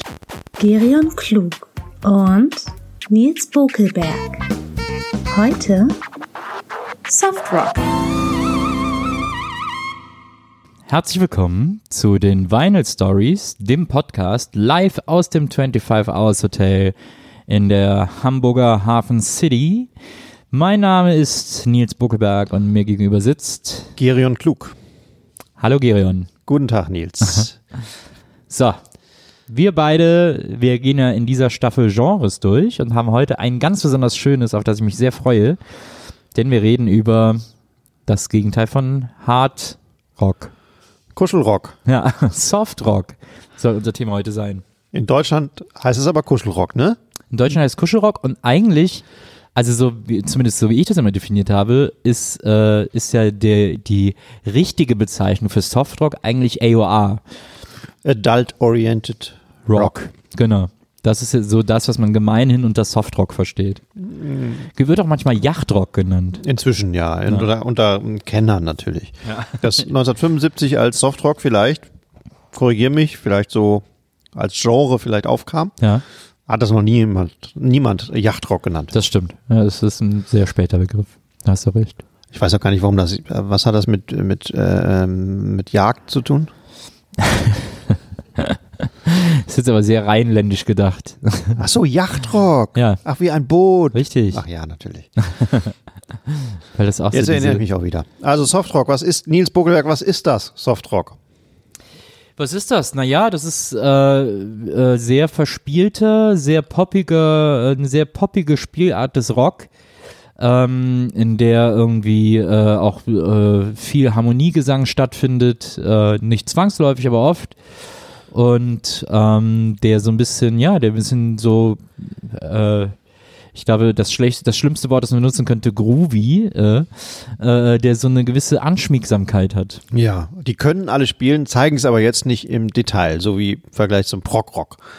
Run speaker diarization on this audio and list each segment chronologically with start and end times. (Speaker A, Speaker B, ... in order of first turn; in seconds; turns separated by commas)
Speaker A: 0.6-4.4, Speaker A: 5.3-6.0, Speaker A: 7.1-7.9, Speaker B: 10.9-16.9, Speaker B: 17.5-19.9, Speaker B: 20.5-23.9, Speaker C: 24.0-24.8, Speaker B: 25.6-26.3, Speaker C: 26.5-27.6, Speaker B: 28.5-28.8, Speaker B: 29.5-35.6, Speaker B: 36.3-37.4, Speaker B: 38.1-40.5, Speaker C: 41.1-41.8, Speaker B: 41.9-44.6, Speaker C: 44.9-47.0, Speaker B: 47.3-57.2, Speaker C: 58.0-59.9, Speaker B: 59.7-63.8, Speaker C: 64.0-64.7, Speaker B: 64.8-66.4, Speaker C: 66.4-71.9, Speaker B: 69.3-69.7, Speaker C: 72.5-75.8, Speaker C: 76.5-78.9, Speaker B: 78.9-82.0, Speaker C: 82.3-86.5, Speaker B: 87.2-87.7, Speaker B: 88.4-91.6, Speaker C: 91.6-95.1, Speaker B: 92.8-93.0, Speaker B: 93.9-94.4, Speaker B: 95.2-95.7, Speaker B: 96.3-97.6, Speaker C: 97.1-101.2, Speaker B: 102.4-109.7, Speaker B: 110.4-117.6, Speaker B: 118.3-122.9, Speaker B: 123.5-129.8, Speaker C: 129.9-134.8